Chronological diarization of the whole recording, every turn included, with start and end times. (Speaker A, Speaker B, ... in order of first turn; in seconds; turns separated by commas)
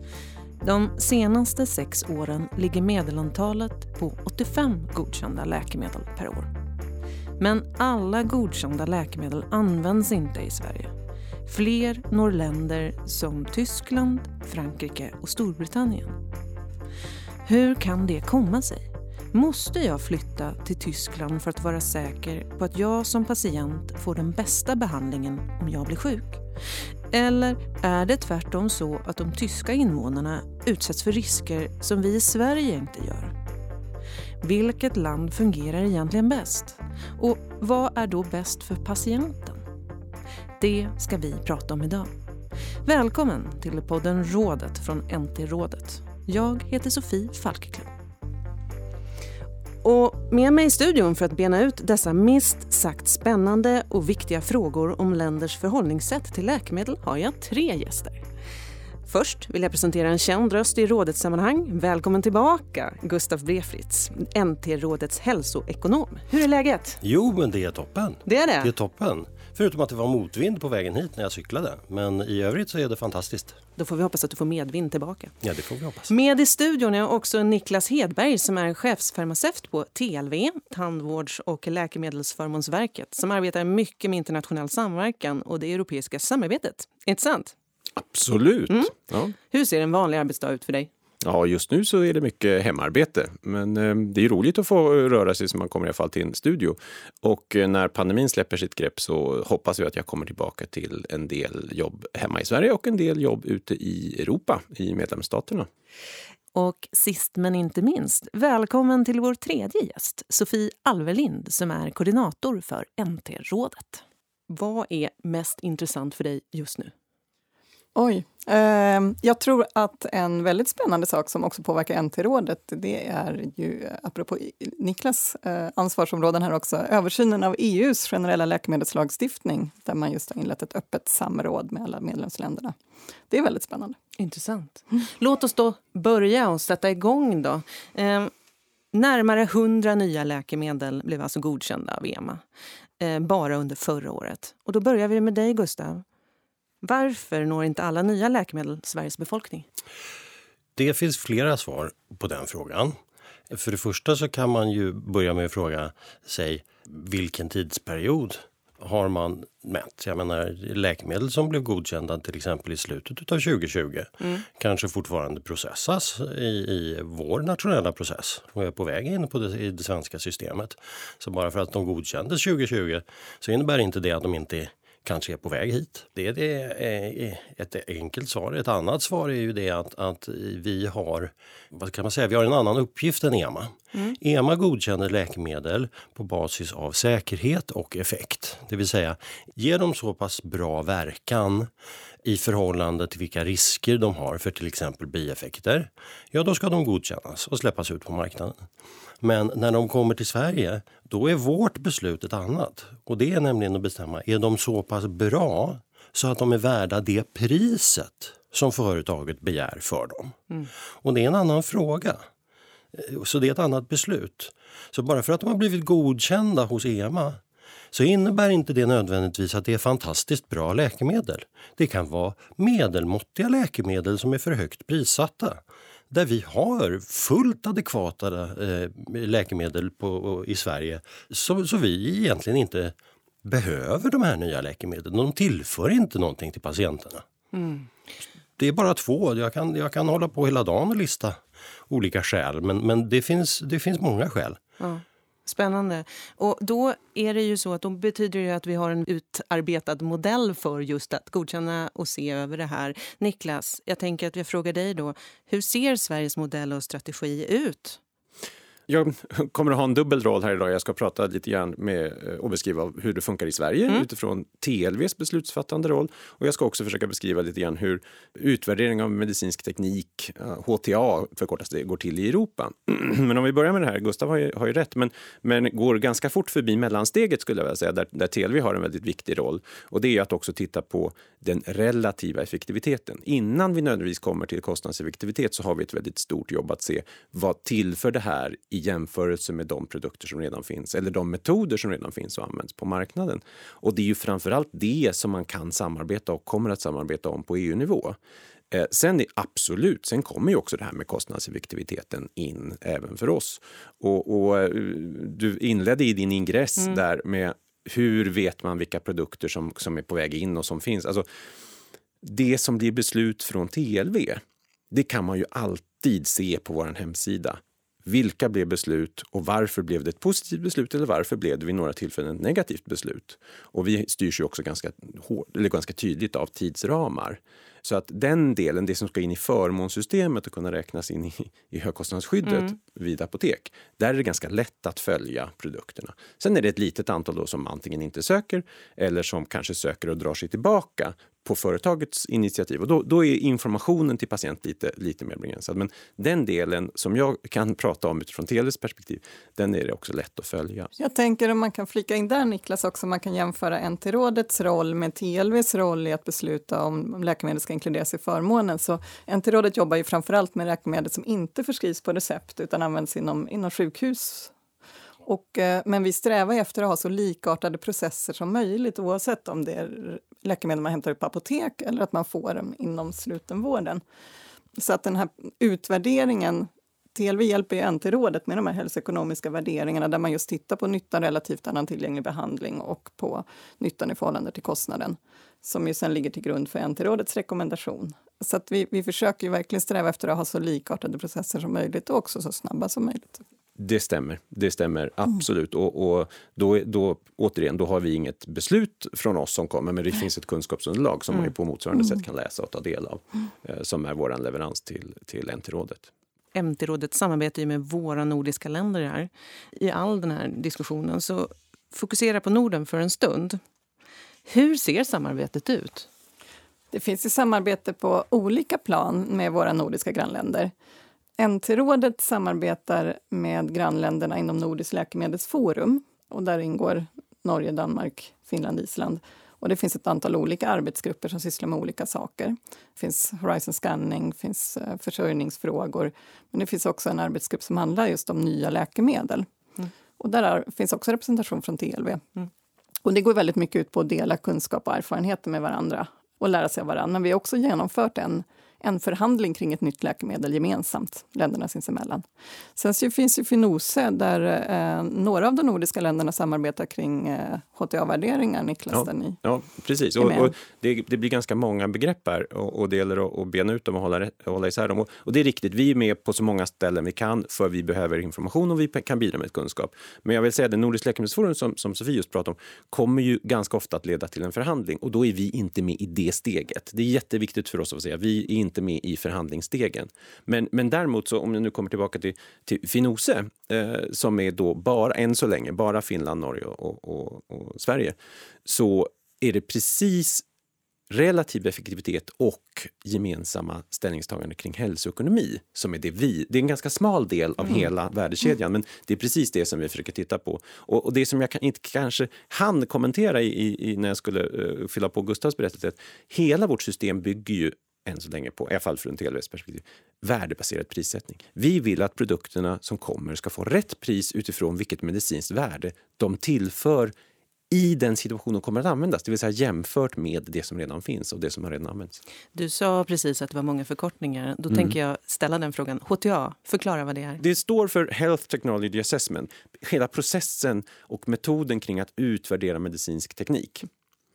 Speaker A: 0.6-6.5, Speaker A: 7.4-10.9, Speaker A: 11.4-16.2, Speaker A: 17.4-26.4, Speaker A: 27.1-33.4, Speaker A: 34.4-39.6, Speaker A: 40.6-42.1, Speaker A: 42.8-47.9, Speaker A: 49.8-58.2, Speaker A: 59.0-67.0, Speaker B: 67.0-73.6, Speaker A: 68.2-68.7, Speaker A: 73.8-75.3, Speaker B: 75.4-76.1, Speaker A: 76.1-87.5, Speaker C: 88.0-89.3, Speaker A: 88.7-90.9, Speaker C: 91.2-105.7, Speaker A: 106.5-116.9, Speaker D: 117.9-132.7, Speaker D: 133.3-134.0, Speaker A: 134.2-138.3, Speaker A: 138.9-142.4, Speaker A: 143.0-146.0, Speaker A: 146.8-149.7, Speaker B: 150.8-152.9, Speaker B: 153.5-191.7, Speaker B: 192.2-198.6, Speaker B: 199.2-210.4, Speaker B: 211.0-212.2, Speaker B: 212.9-217.4, Speaker B: 217.9-237.2, Speaker A: 237.5-237.9, Speaker B: 238.6-244.6, Speaker A: 244.8-258.0, Speaker C: 258.9-298.2, Speaker C: 298.7-311.2, Speaker C: 312.2-350.9, Speaker D: 351.0-364.5, Speaker D: 365.2-374.0, Speaker D: 374.8-393.4, Speaker C: 393.8-406.1, Speaker A: 406.5-413.6, Speaker A: 414.5-416.1, Speaker D: 416.9-420.7, Speaker D: 421.4-439.5, Speaker D: 440.2-442.3, Speaker D: 443.1-459.4, Speaker C: 458.9-490.4, Speaker D: 460.2-460.5, Speaker C: 491.1-517.1, Speaker C: 517.7-522.2, Speaker A: 522.5-527.4, Speaker C: 527.4-533.9